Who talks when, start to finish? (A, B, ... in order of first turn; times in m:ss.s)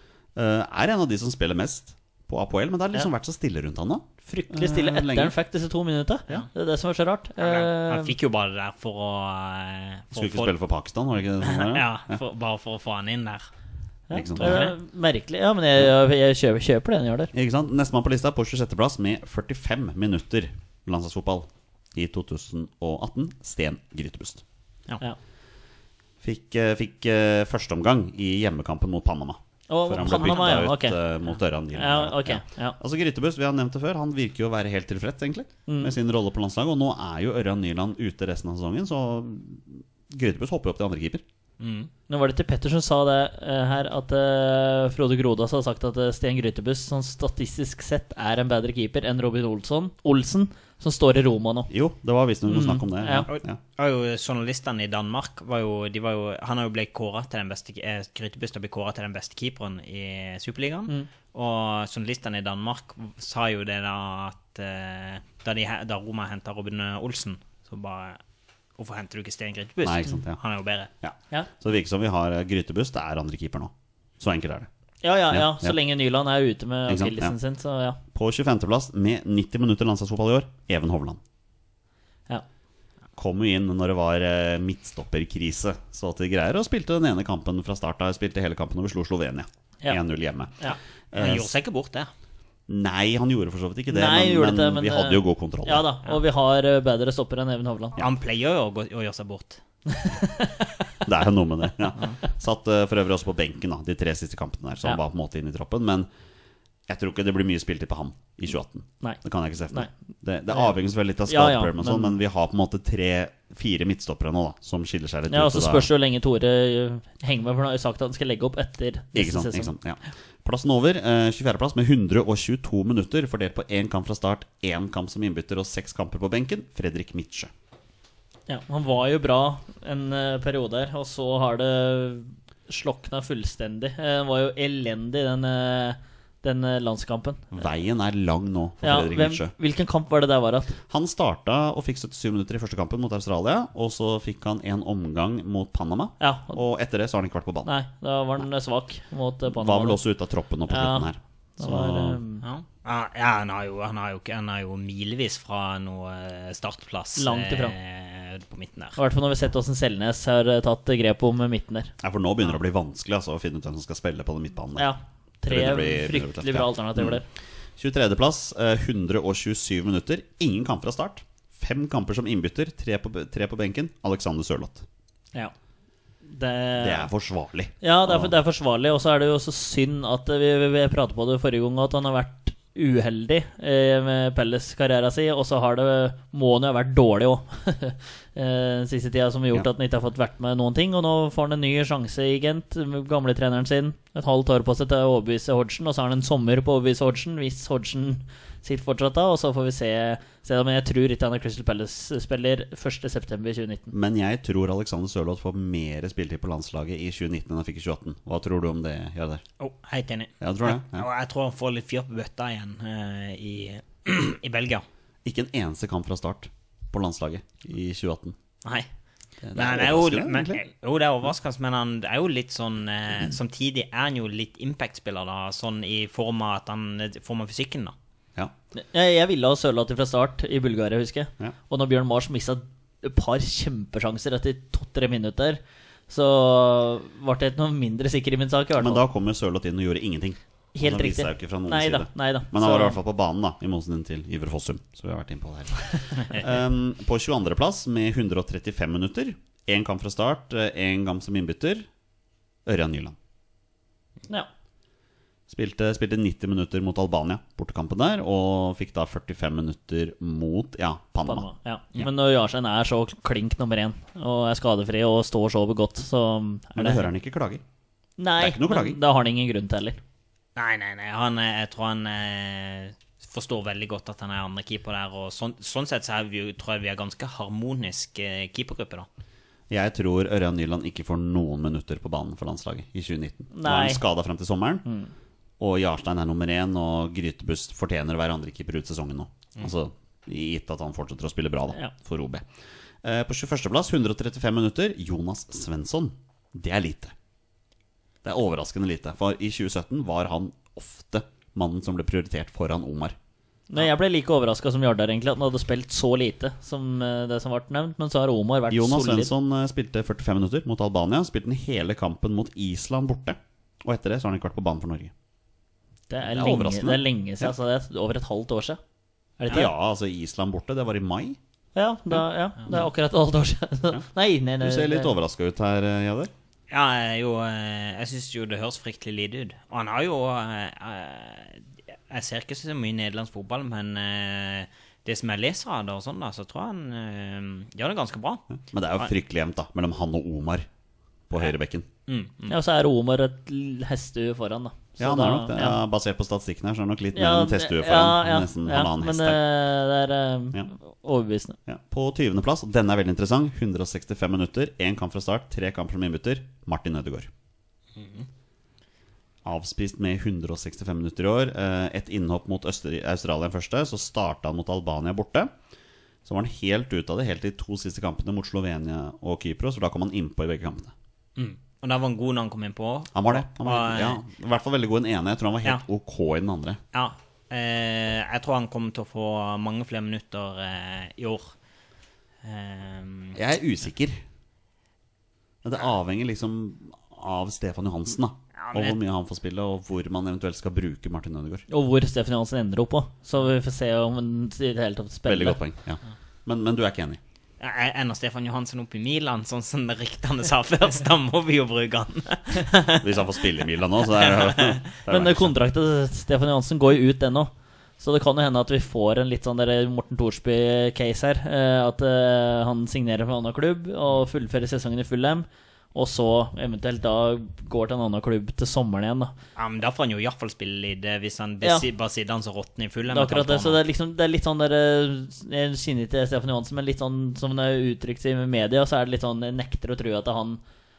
0:00.4-0:05.4 A
0:04.3-0:08.1 B
0:07.4-0:10.5 C
0:10.1-0:12.2 A
0:11.4-0:13.5 C
0:14.1-0:17.3 B
0:14.1-0:14.7 A
0:14.4-0:14.7 C
0:17.3-0:24.4 A
0:26.2-0:41.2 A
0:29.7-0:31.0 B
0:30.2-0:30.5 C
0:31.8-0:32.8 B
0:35.7-0:35.9 B
0:41.6-0:41.9 C
0:42.1-0:51.7 B
0:51.7-0:53.6 A
0:52.5-0:53.3 B
0:53.3-1:08.2 C
1:08.8-1:10.9 C
1:09.8-1:10.4 A
1:11.0-1:14.7 A
1:15.0-1:18.0 B
1:15.3-1:15.8 A
1:16.9-1:17.4 A
1:18.1-1:21.2 A
1:23.2-1:31.5 A
1:30.7-1:32.1 C
1:32.7-1:35.9 A
1:33.9-1:38.0 B
1:38.0-1:39.6 C
1:39.9-1:40.9 B
1:41.0-1:46.1 A
1:46.9-1:55.9 A
1:49.0-1:49.9 B
1:51.3-1:52.2 B
1:55.3-1:59.7 B
1:59.1-2:07.5 A
2:08.5-2:17.5 B
2:17.5-2:19.5 A
2:18.8-2:20.8 B
2:20.9-2:27.7 A
2:26.2-2:26.6 B
2:27.6-2:30.0 B
2:29.5-2:32.2 A
2:30.7-2:32.4 B
2:32.4-2:39.0 C
2:37.2-2:37.8 B
2:39.0-2:41.9 B
2:42.0-2:44.9 A
2:44.8-2:47.2 B
2:45.5-2:47.2 A
2:47.8-2:54.8 A
2:56.2-2:57.1 B
2:56.8-2:58.3 A
2:57.8-3:23.9 B
3:23.9-3:29.4 A
3:29.6-3:34.8 C
3:30.4-3:31.1 A
3:35.2-3:38.4 A
3:39.4-3:40.6 A
3:39.6-3:48.0 C
3:48.8-3:59.0 B
3:58.8-4:11.9 A
4:00.8-4:03.0 B
4:12.7-4:13.2 A
4:15.5-4:21.5 A
4:21.3-4:27.1 B
4:26.8-4:27.6 A
4:28.2-4:30.0 B
4:28.4-4:29.0 A
4:30.6-4:39.1 C
4:39.7-4:44.9 A
4:43.5-4:44.0 B
4:44.8-4:45.1 B
4:45.6-4:52.5 A
4:53.0-4:57.1 A
4:58.2-5:03.2 A
5:03.7-5:09.3 B
5:08.7-5:15.1 A
5:16.1-5:18.8 B
5:16.3-5:17.5 A
5:19.4-5:19.7 B
5:19.5-5:21.4 A
5:21.8-5:25.1 B
5:22.1-5:22.9 A
5:24.6-5:26.3 A
5:26.7-5:38.4 C
5:38.6-5:40.7 A
5:41.3-5:41.9 A
5:42.1-5:42.6 C
5:42.5-5:45.8 B
5:45.0-5:49.4 A
5:47.2-5:51.6 B
5:51.7-5:57.3 A
5:58.0-5:58.3 C
5:59.4-6:05.5 A
6:06.2-6:10.9 A
6:11.4-6:14.2 C
6:13.1-6:16.8 A
6:16.9-6:21.5 C
6:22.4-6:23.4 C
6:23.4-6:24.2 A
6:25.6-6:31.7 A
6:28.6-6:29.0 C
6:31.7-6:35.6 B
6:35.3-6:37.2 A
6:37.6-6:43.1 C
6:42.9-6:45.6 A
6:44.1-6:44.8 C
6:45.1-6:59.3 B
6:59.6-7:03.8 C
7:03.1-7:10.6 B